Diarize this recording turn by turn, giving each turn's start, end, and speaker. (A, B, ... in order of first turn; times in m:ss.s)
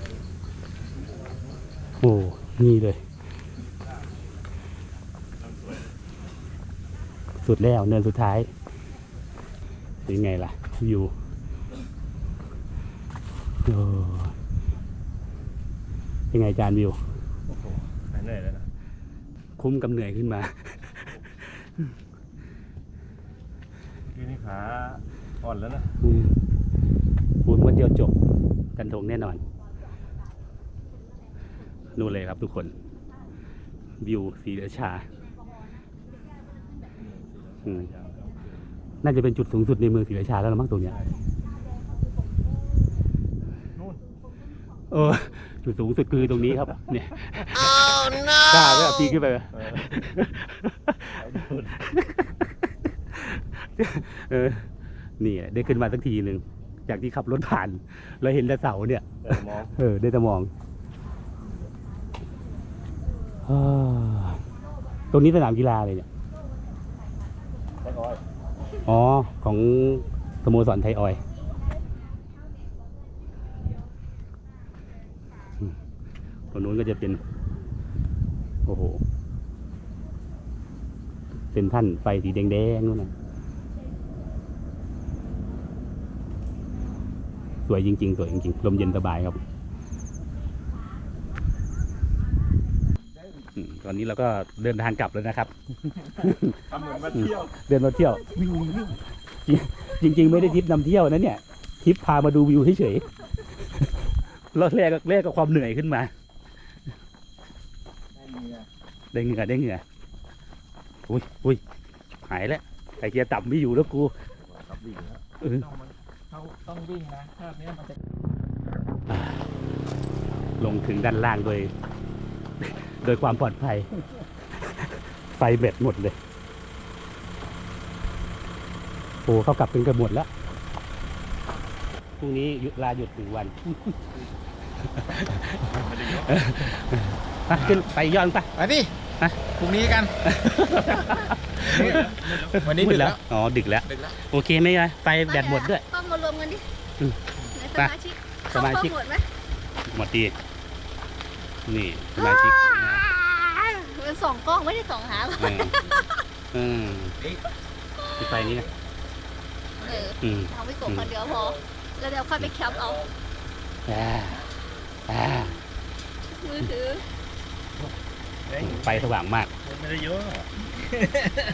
0:01.0-0:01.8 A
0:02.0-0:03.0 B
0:05.4-0:06.0 A
0:07.4-0:08.5 B
0:10.0-0:11.1 B
0:13.6-0:14.3 B
0:16.3-0:17.0 B
0:17.4-0:18.7 A
0:19.6-0:20.7 B
0:24.1-0:26.0 A
0:26.0-0:26.3 B
0:27.4-0:28.1 B
0:28.8-0:29.4 B
0:31.9-0:32.7 B
0:34.0-0:35.0 B
0:36.9-0:38.8 A
0:39.0-0:41.0 B
0:40.9-0:41.1 A
0:44.9-0:51.0 B
0:49.6-0:49.9 A
0:51.0-0:52.2 A
0:53.2-0:54.7 B
0:55.2-1:00.5 B
0:59.2-0:59.7 A
1:03.4-1:04.4 B
1:05.1-1:06.0 B
1:07.8-1:08.2 A
1:08.8-1:11.2 B
1:16.5-1:17.2 B
1:18.6-1:19.0 B
1:21.5-1:23.1 B
1:27.6-1:29.4 B
1:33.5-1:35.5 B
1:36.0-1:36.6 B
1:36.7-1:37.5 A
1:36.7-1:37.4 C
1:37.1-1:43.1 B
1:44.5-1:46.1 B
1:48.1-1:48.6 A
1:49.1-1:49.8 B
1:51.1-1:51.6 B
1:52.2-1:54.1 B
1:54.4-1:55.2 A
1:55.4-1:55.7 B
1:55.7-1:57.9 D
2:00.6-2:01.7 B
2:02.8-2:06.2 B
2:09.2-2:10.3 B
2:12.2-2:14.0 B
2:15.0-2:18.5 B
2:15.7-2:16.6 A
2:17.6-2:17.8 D
2:18.6-2:18.9 D
2:19.6-2:20.1 D
2:20.2-2:25.8 B
2:21.6-2:22.6 A
2:21.6-2:23.2 D
2:25.3-2:26.6 C
2:27.5-2:29.3 C
2:28.5-2:28.9 B
2:29.8-2:30.3 B
2:31.6-2:33.0 B
2:32.2-2:36.1 C
2:35.4-2:35.8 B
2:36.5-2:37.2 B
2:38.0-2:38.7 C
2:38.2-2:38.6 B
2:39.8-2:43.1 C
2:40.2-2:41.1 B
2:43.9-2:44.4 B
2:45.1-2:45.5 B
2:46.3-2:47.0 C
2:48.6-2:49.5 B
2:49.6-2:50.5 A